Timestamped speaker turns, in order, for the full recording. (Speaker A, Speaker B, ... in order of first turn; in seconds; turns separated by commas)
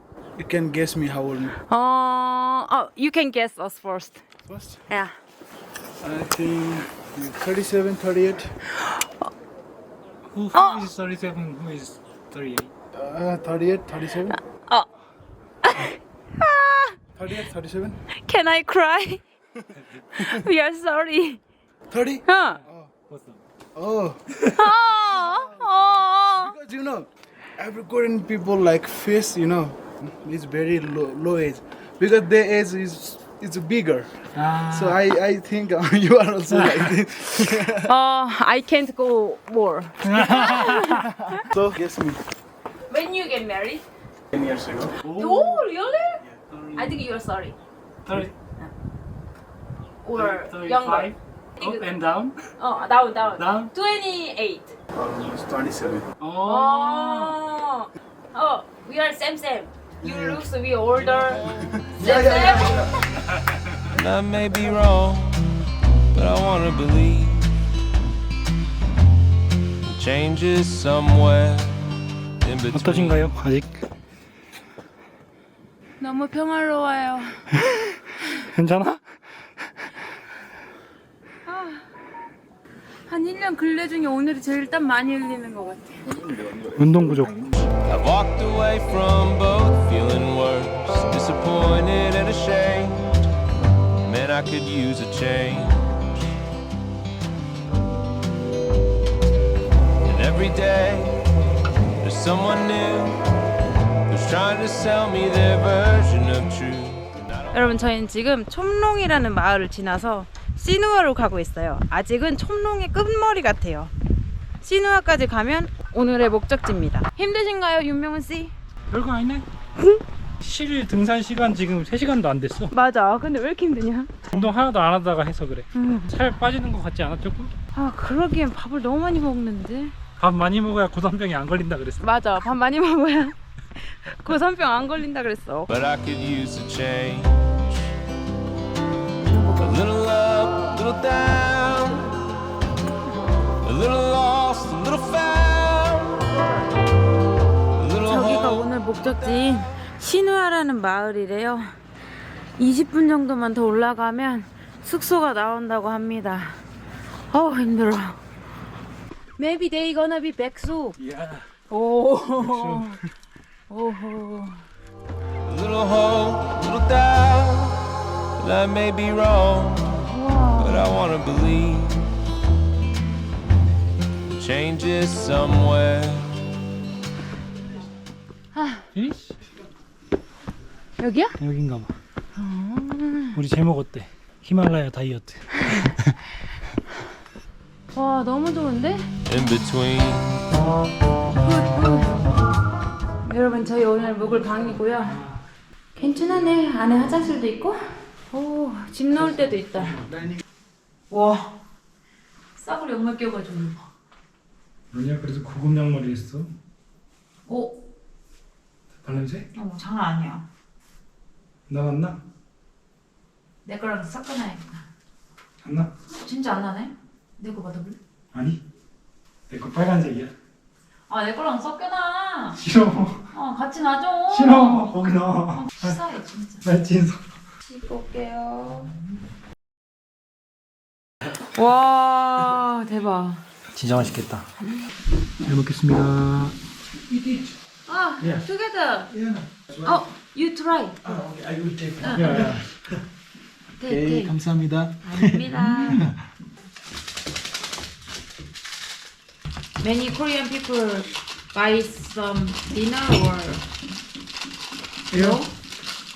Speaker A: 0.4-1.6, Speaker B: 1.7-4.2, Speaker A: 4.5-4.8, Speaker B: 4.9-5.2, Speaker A: 6.0-8.5, Speaker B: 8.8-9.3, Speaker C: 10.3-12.7, Speaker B: 10.5-10.9, Speaker A: 12.9-14.4, Speaker B: 14.3-14.9, Speaker B: 15.6-17.0, Speaker A: 17.2-18.0, Speaker B: 18.2-19.2, Speaker B: 20.1-21.4, Speaker A: 21.9-22.9, Speaker B: 22.2-22.6, Speaker C: 22.5-23.4, Speaker A: 23.8-24.2, Speaker C: 24.4-24.6, Speaker B: 24.5-26.5, Speaker A: 24.8-37.9, Speaker C: 34.4-35.0, Speaker C: 36.5-36.9, Speaker B: 37.8-41.5, Speaker C: 40.0-41.1, Speaker A: 41.2-42.2, Speaker B: 42.9-43.8, Speaker A: 44.3-45.7, Speaker B: 45.1-46.2, Speaker A: 46.2-47.0, Speaker B: 46.8-47.6, Speaker C: 48.1-48.4, Speaker B: 50.0-51.9, Speaker C: 50.2-52.4, Speaker B: 52.6-54.8, Speaker C: 53.4-53.7, Speaker A: 54.9-56.1, Speaker C: 56.2-57.4, Speaker B: 56.4-61.4, Speaker A: 60.0-60.5, Speaker D: 61.0-63.1, Speaker A: 61.6-63.0, Speaker B: 62.0-63.0, Speaker D: 63.9-65.4, Speaker D: 66.1-67.6, Speaker D: 69.8-73.3, Speaker C: 72.7-73.7, Speaker B: 76.0-77.5, Speaker C: 78.4-79.0, Speaker B: 81.5-81.8, Speaker B: 83.1-86.1, Speaker C: 86.7-87.5, Speaker D: 87.7-93.1, Speaker D: 94.0-96.0, Speaker D: 100.0-101.3, Speaker D: 102.0-103.2, Speaker D: 104.1-108.0, Speaker B: 107.5-113.9, Speaker B: 114.6-118.5, Speaker C: 118.9-119.5, Speaker C: 120.4-122.7, Speaker B: 122.7-124.4, Speaker C: 124.3-127.5, Speaker B: 125.8-126.1, Speaker B: 127.8-129.9, Speaker C: 130.2-132.1, Speaker B: 132.0-135.7, Speaker D: 135.7-137.8, Speaker B: 139.2-139.8, Speaker D: 139.6-142.1, Speaker D: 143.6-146.3, Speaker D: 147.8-149.5, Speaker B: 148.0-151.7, Speaker B: 152.6-156.6, Speaker B: 157.3-158.2, Speaker B: 159.4-161.0, Speaker C: 161.0-161.4, Speaker B: 161.7-163.0, Speaker A: 162.4-163.0, Speaker B: 163.7-164.6, Speaker D: 165.4-172.1, Speaker B: 170.1-170.8, Speaker D: 174.3-176.3, Speaker B: 178.5-178.9, Speaker C: 178.9-179.3, Speaker B: 181.0-181.4, Speaker C: 181.4-181.9, Speaker B: 182.3-183.4, Speaker C: 183.3-186.2, Speaker B: 187.9-189.1, Speaker D: 189.3-190.5, Speaker B: 191.4-192.3, Speaker B: 193.2-195.2, Speaker C: 194.4-195.3, Speaker B: 195.9-197.8, Speaker B: 198.3-200.0, Speaker C: 199.2-200.1, Speaker B: 201.1-201.6, Speaker B: 202.6-203.9, Speaker C: 204.9-206.5, Speaker B: 207.5-207.8, Speaker C: 209.0-209.4, Speaker B: 209.5-210.4, Speaker C: 211.7-212.2, Speaker B: 213.7-214.8, Speaker C: 215.6-215.9, Speaker B: 216.1-218.0, Speaker C: 218.3-218.6, Speaker C: 219.5-220.3, Speaker B: 221.1-222.6, Speaker C: 222.6-223.2, Speaker B: 223.3-224.9, Speaker C: 224.3-226.0, Speaker B: 225.5-226.7, Speaker C: 226.6-227.2, Speaker B: 227.7-228.9, Speaker B: 231.5-233.4, Speaker C: 233.7-234.4, Speaker C: 235.5-236.6, Speaker A: 237.1-237.6, Speaker B: 237.9-239.1, Speaker A: 239.1-240.0, Speaker B: 239.8-241.0, Speaker A: 241.0-243.0, Speaker B: 242.0-242.5, Speaker C: 242.1-242.7, Speaker B: 243.8-244.3, Speaker A: 243.9-246.1, Speaker B: 245.0-246.0, Speaker B: 249.8-253.6, Speaker A: 255.1-255.4, Speaker B: 255.1-255.5